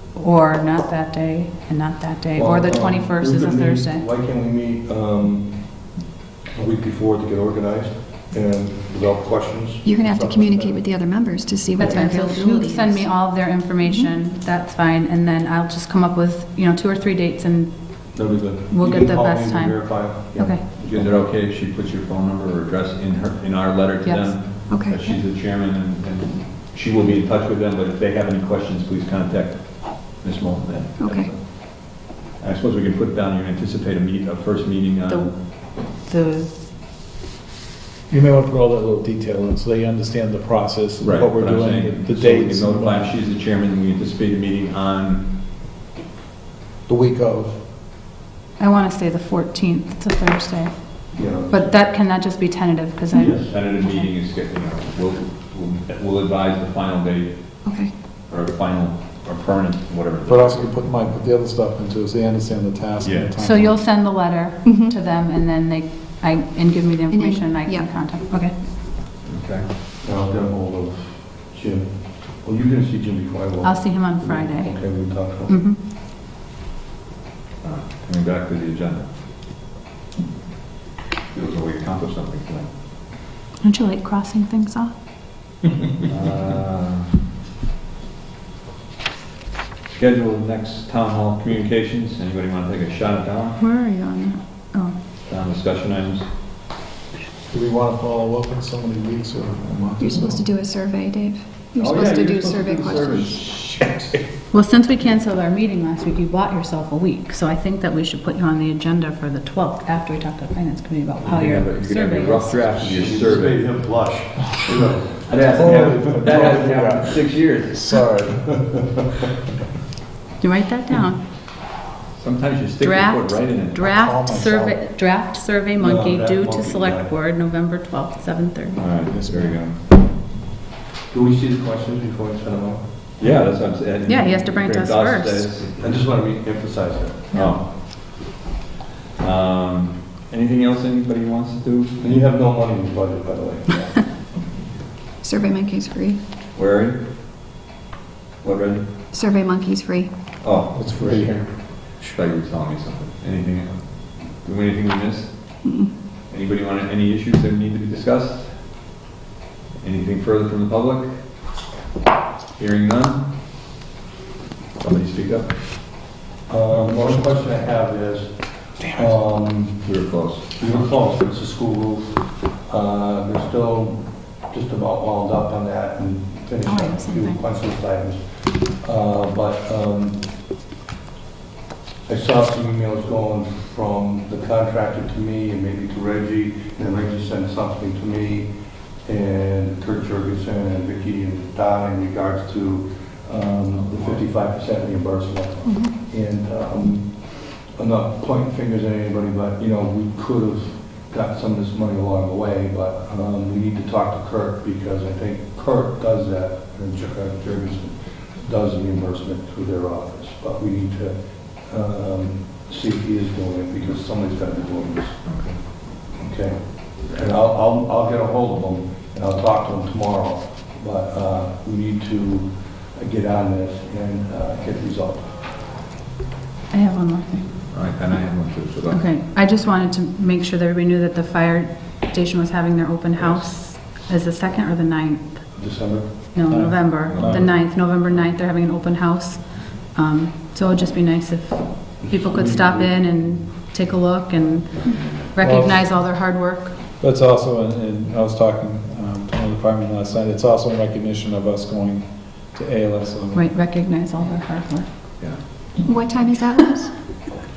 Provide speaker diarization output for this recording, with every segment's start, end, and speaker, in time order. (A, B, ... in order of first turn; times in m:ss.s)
0:00.1-0:04.0 A
0:02.4-0:06.0 B
0:06.5-0:10.8 B
0:09.8-0:13.1 C
0:11.8-0:20.6 A
0:11.8-0:12.2 B
0:13.8-0:14.1 C
0:18.1-0:21.2 B
0:20.8-0:35.4 D
0:24.0-0:24.8 A
0:24.7-0:25.1 C
0:31.0-0:31.3 C
0:35.1-0:36.5 A
0:38.1-0:43.2 E
0:41.0-0:45.3 D
0:46.9-0:47.6 E
0:48.6-0:54.1 A
0:51.1-0:51.7 B
0:53.1-0:53.5 B
0:53.4-1:00.8 D
0:57.6-0:58.0 C
1:00.3-1:03.8 E
1:03.0-1:03.3 D
1:03.4-1:08.5 A
1:04.6-1:04.9 C
1:07.1-1:07.9 C
1:09.2-1:09.7 D
1:10.0-1:15.6 B
1:13.6-1:15.8 A
1:17.6-1:19.1 D
1:21.3-1:22.7 D
1:23.6-1:24.9 A
1:26.0-1:27.1 D
1:29.9-1:33.6 D
1:33.6-1:34.9 A
1:33.6-1:34.3 C
1:35.2-1:36.3 D
1:37.5-1:40.5 E
1:40.0-1:43.5 C
1:41.7-1:43.5 D
1:43.4-1:44.1 E
1:44.5-1:53.0 A
1:51.2-1:53.6 D
1:52.8-1:55.3 B
1:55.2-1:58.0 D
1:55.4-1:58.8 E
1:55.9-1:56.5 B
2:00.4-2:01.2 A
2:02.2-2:03.9 D
2:02.8-2:08.8 A
2:03.8-2:04.8 E
2:05.8-2:07.1 B
2:08.7-2:09.8 D
2:09.1-2:09.6 E
2:11.1-2:12.8 B
2:13.2-2:16.1 D
2:14.1-2:15.5 A
2:15.7-2:17.3 B
2:17.3-2:17.7 D
2:19.2-2:22.1 D
2:22.0-2:24.1 B
2:25.2-2:26.2 C
2:26.5-2:27.0 D
2:28.4-2:28.9 D
2:29.1-2:30.1 C
2:30.4-2:35.6 D
2:30.7-2:31.4 E
2:35.6-2:35.9 C
2:36.3-2:38.6 D
2:39.8-2:41.1 D
2:42.6-2:43.3 D
2:44.8-2:45.5 D
2:46.5-3:00.2 B
2:46.8-2:47.2 E
2:48.8-2:49.2 E
2:49.8-2:50.5 D
2:56.6-2:57.4 A
3:02.1-3:08.5 B
3:09.0-3:35.2 B
3:13.7-3:14.2 D
3:15.6-3:16.0 C
3:35.2-3:35.6 D
3:36.1-3:45.4 B
3:46.7-3:47.5 A
3:47.7-3:49.0 D
3:48.9-3:55.6 A
3:55.5-3:56.3 B
3:56.3-4:06.7 A
3:56.5-3:57.5 E
3:57.0-3:57.6 D
4:02.0-4:03.4 B
4:04.7-4:05.3 D
4:05.4-4:05.9 E
4:07.0-4:13.4 E
4:13.3-4:14.9 A
4:15.8-4:17.2 C